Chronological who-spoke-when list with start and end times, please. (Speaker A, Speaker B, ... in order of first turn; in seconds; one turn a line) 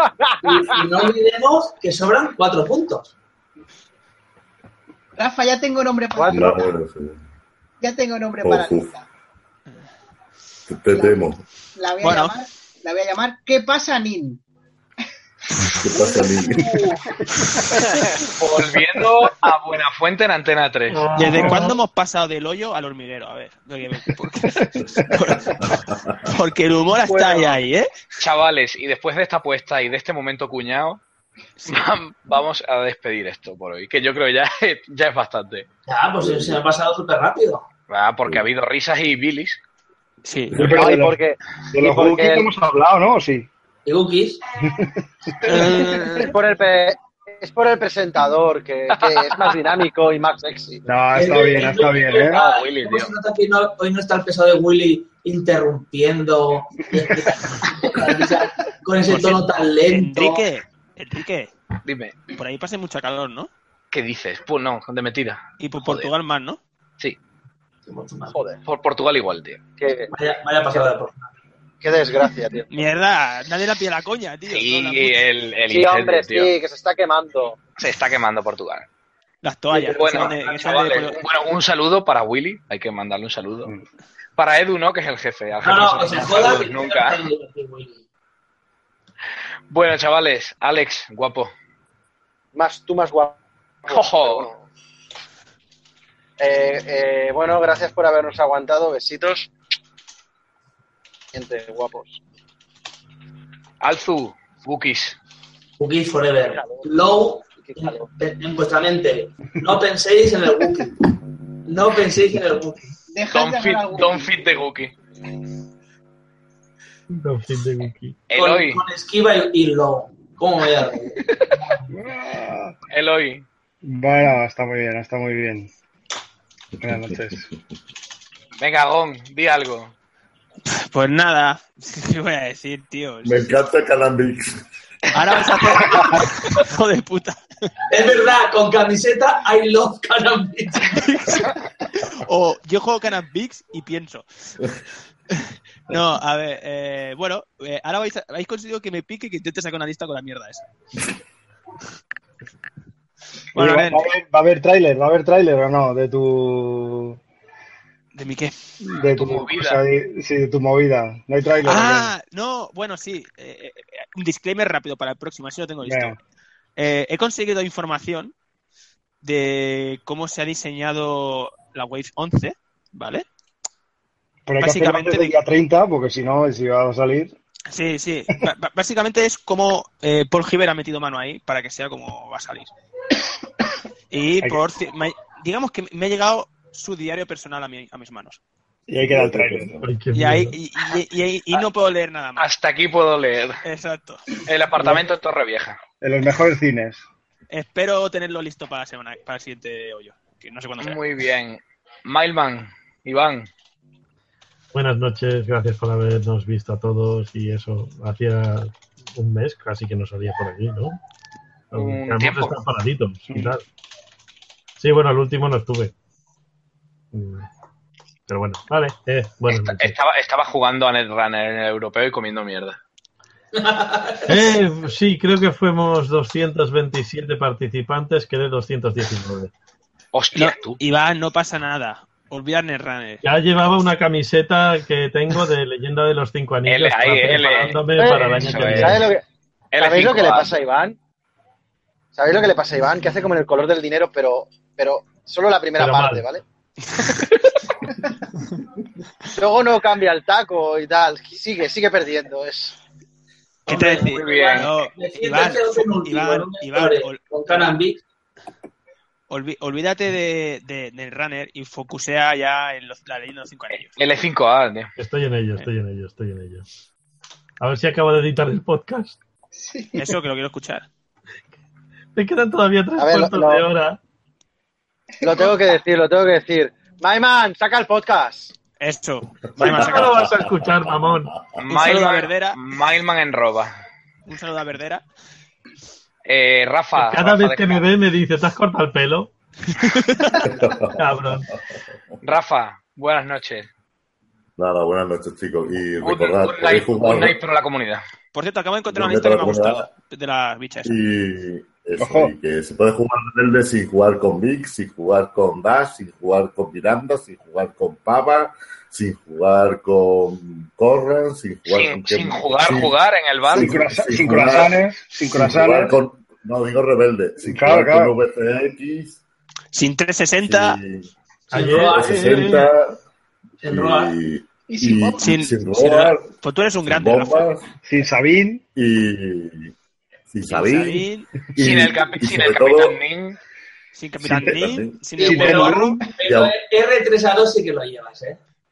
Speaker A: 0.2-0.8
Speaker B: 0.4-3.1
Speaker C: 5.2-6.7
Speaker A: 6.1-6.5
Speaker D: 6.3-7.2
Speaker C: 7.8-9.1
Speaker D: 8.4-8.9
Speaker D: 10.7-11.4
Speaker C: 10.9-14.4
Speaker E: 12.0-12.3
Speaker D: 15.7-16.6
Speaker C: 15.9-16.9
Speaker F: 18.4-21.0
Speaker G: 20.9-21.7
Speaker E: 21.1-27.9
Speaker H: 21.2-21.7
Speaker D: 25.6-26.2
Speaker F: 28.2-31.0
Speaker E: 31.6-31.9
Speaker F: 31.7-35.7
Speaker B: 35.9-37.6
Speaker F: 37.9-39.6
Speaker E: 40.2-40.8
Speaker H: 40.5-41.2
Speaker A: 40.6-42.5
Speaker H: 41.7-43.5
Speaker B: 43.8-44.4
Speaker H: 44.7-45.0
Speaker E: 45.4-46.4
Speaker A: 46.1-50.9
Speaker F: 48.9-49.6
Speaker H: 50.9-52.4
Speaker B: 51.1-60.4
Speaker F: 52.3-53.1
Speaker E: 59.0-61.5
Speaker F: 61.8-62.1
Speaker E: 62.4-63.5
Speaker F: 63.9-66.1
Speaker E: 65.6-66.6
Speaker B: 67.8-68.4
Speaker A: 68.3-68.6
Speaker F: 68.6-69.6
Speaker A: 69.8-70.1
Speaker B: 70.1-71.3
Speaker A: 71.8-72.7
Speaker E: 72.7-75.2
Speaker F: 74.5-76.5
Speaker A: 75.7-77.6
Speaker F: 77.8-78.9
Speaker E: 79.4-81.2
Speaker F: 79.9-83.7
Speaker B: 80.0-81.1
Speaker F: 84.4-87.2
Speaker B: 85.6-88.0
Speaker F: 89.7-91.5
Speaker A: 92.5-94.6
Speaker F: 93.9-94.5
Speaker A: 96.4-99.5
Speaker A: 101.3-102.2
Speaker F: 103.8-105.2
Speaker B: 105.8-110.9
Speaker A: 106.5-106.9
Speaker A: 107.5-108.1
Speaker B: 111.7-112.9
Speaker C: 113.1-114.3
Speaker F: 113.3-114.9
Speaker G: 117.1-118.2
Speaker F: 118.3-118.8
Speaker B: 118.3-121.2
Speaker H: 121.9-122.7
Speaker F: 122.9-123.4
Speaker H: 123.8-125.7
Speaker D: 126.8-127.2
Speaker H: 126.8-127.5
Speaker F: 128.6-129.9
Speaker E: 130.7-133.5
Speaker D: 133.2-134.6
Speaker E: 135.1-137.4
Speaker B: 137.9-141.0
Speaker E: 140.8-144.7
Speaker E: 145.3-150.6
Speaker E: 153.5-154.1
Speaker H: 153.5-157.2
Speaker E: 158.1-158.6
Speaker H: 158.8-162.1
Speaker F: 158.9-159.8
Speaker E: 161.6-166.2
Speaker H: 165.8-166.2
Speaker E: 166.8-168.3
Speaker E: 169.2-173.2
Speaker H: 174.4-177.3
Speaker E: 174.6-175.3
Speaker E: 177.7-182.7
Speaker E: 184.1-188.4
Speaker H: 188.9-189.7
Speaker D: 189.1-189.9
Speaker G: 189.8-190.6
Speaker E: 190.1-192.5
Speaker F: 192.4-193.6
Speaker E: 193.6-194.3
Speaker F: 194.4-195.8
Speaker H: 196.0-197.0
Speaker E: 197.5-201.0
Speaker F: 200.8-203.5
Speaker G: 204.7-210.9
Speaker G: 211.7-213.6
Speaker F: 211.7-212.6
Speaker G: 214.8-215.9
Speaker G: 217.1-217.4
Speaker G: 218.3-220.0
Speaker F: 219.5-222.8
Speaker B: 223.5-224.6
Speaker G: 224.3-229.5
Speaker F: 230.1-230.8
Speaker E: 230.3-233.2
Speaker G: 233.2-239.1
Speaker F: 236.7-239.1
Speaker A: 237.9-239.2
Speaker F: 239.7-240.5
Speaker A: 239.8-241.0
Speaker A: 242.1-246.4
Speaker G: 245.8-246.3
Speaker E: 246.8-247.5
Speaker A: 249.4-252.7
Speaker E: 253.7-257.2
Speaker B: 253.7-258.0
Speaker F: 254.1-254.7
Speaker E: 259.3-264.0
Speaker F: 263.7-264.9
Speaker G: 265.0-266.6
Speaker G: 267.6-269.2
Speaker C: 269.5-270.1
Speaker E: 269.9-270.9
Speaker G: 272.1-274.0
Speaker A: 273.0-273.6
Speaker C: 275.2-275.8
Speaker A: 275.2-278.5
Speaker E: 278.8-280.1
Speaker D: 279.5-281.6
Speaker G: 279.6-281.3
Speaker F: 281.6-283.7
Speaker E: 281.7-282.6
Speaker E: 284.3-285.0
Speaker F: 286.2-287.8
Speaker G: 286.9-289.3
Speaker E: 289.8-290.4
Speaker D: 290.4-291.0
Speaker G: 290.9-291.5
Speaker F: 292.2-293.7
Speaker D: 294.6-297.4
Speaker F: 296.0-298.0
Speaker E: 298.3-301.0
Speaker D: 298.9-299.9
Speaker D: 300.8-313.0
Speaker H: 302.0-302.3
Speaker F: 311.6-313.8
Speaker H: 313.5-315.9
Speaker D: 313.5-314.8
Speaker D: 315.3-319.2
Speaker H: 317.4-318.1
Speaker E: 319.7-320.8
Speaker D: 320.5-321.1
Speaker B: 321.5-322.2
Speaker G: 321.5-322.7
Speaker D: 321.7-323.0
Speaker B: 323.6-324.1
Speaker D: 323.6-326.3
Speaker C: 324.7-325.4
Speaker E: 325.2-327.5
Speaker D: 326.9-327.7
Speaker H: 327.8-328.6
Speaker D: 328.7-329.7
Speaker D: 330.3-333.0
Speaker E: 330.5-331.3
Speaker F: 331.6-333.4
Speaker E: 333.9-336.0
Speaker D: 334.2-335.6
Speaker B: 335.2-338.4
Speaker H: 335.2-336.0
Speaker D: 336.2-336.5